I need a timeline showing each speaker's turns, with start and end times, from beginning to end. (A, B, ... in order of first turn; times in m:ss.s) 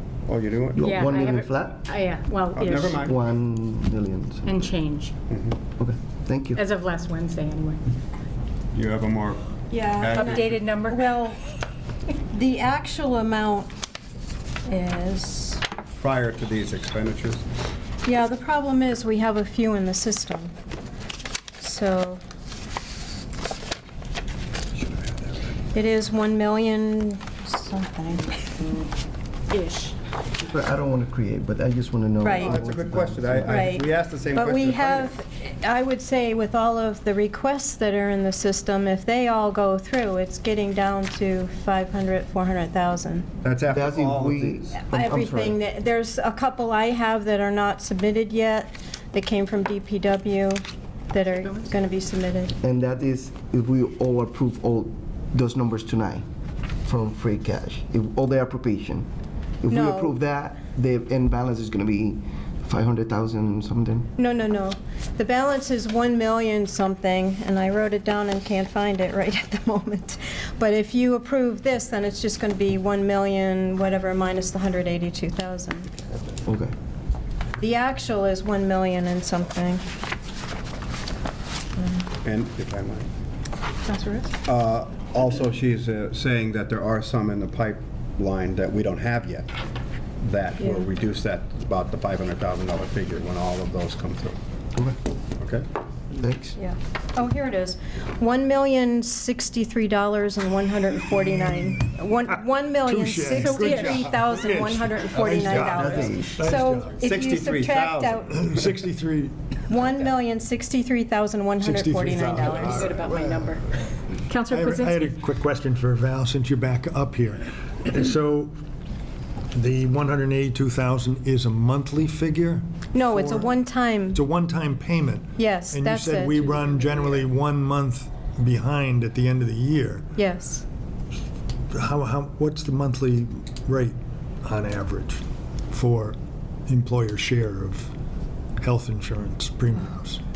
0:00.3-0:01.0 A
0:00.8-0:01.8 B
0:00.8-0:03.0 C
0:02.6-0:03.2 A
0:02.9-0:04.6 B
0:04.5-0:05.1 C
0:05.3-0:05.6 A
0:05.8-0:06.6 B
0:06.6-0:07.8 C
0:08.7-0:09.4 A
0:09.7-0:11.4 D
0:09.9-0:10.6 A
0:10.1-0:11.1 C
0:12.3-0:13.7 D
0:14.7-0:15.6 D
0:16.0-0:17.4 A
0:18.0-0:20.5 D
0:21.6-0:22.2 D
0:25.7-0:28.6 D
0:29.5-0:30.0 C
0:30.4-0:33.7 B
0:32.2-0:32.6 D
0:32.4-0:35.1 A
0:33.4-0:43.3 D
0:43.4-0:44.7 A
0:43.7-0:45.6 B
0:44.8-0:52.6 D
0:52.6-0:56.2 B
0:56.8-0:59.1 B
0:59.6-1:04.1 B
0:59.7-1:00.2 D
1:04.2-1:16.0 D
1:16.5-1:16.7 B
1:17.6-1:19.8 D
1:22.2-1:23.1 A
1:23.9-1:24.3 C
1:24.4-1:29.5 A
1:30.2-1:34.4 A
1:35.4-1:35.7 A
1:36.2-1:36.6 B
1:36.6-1:48.4 D
1:42.8-1:47.0 E
1:43.4-1:44.0 C
1:45.5-1:46.4 B
1:47.0-1:48.2 A
1:48.3-1:49.6 E
1:49.7-1:52.9 D
1:51.6-1:53.4 E
1:52.4-1:53.7 C
1:54.3-1:55.1 C
1:54.5-1:58.5 E
1:59.5-2:03.6 E
2:02.9-2:04.2 D
2:04.1-2:10.1 E
2:05.4-2:06.8 D
2:10.2-2:10.7 D
2:11.7-2:17.9 E
2:18.6-2:20.2 E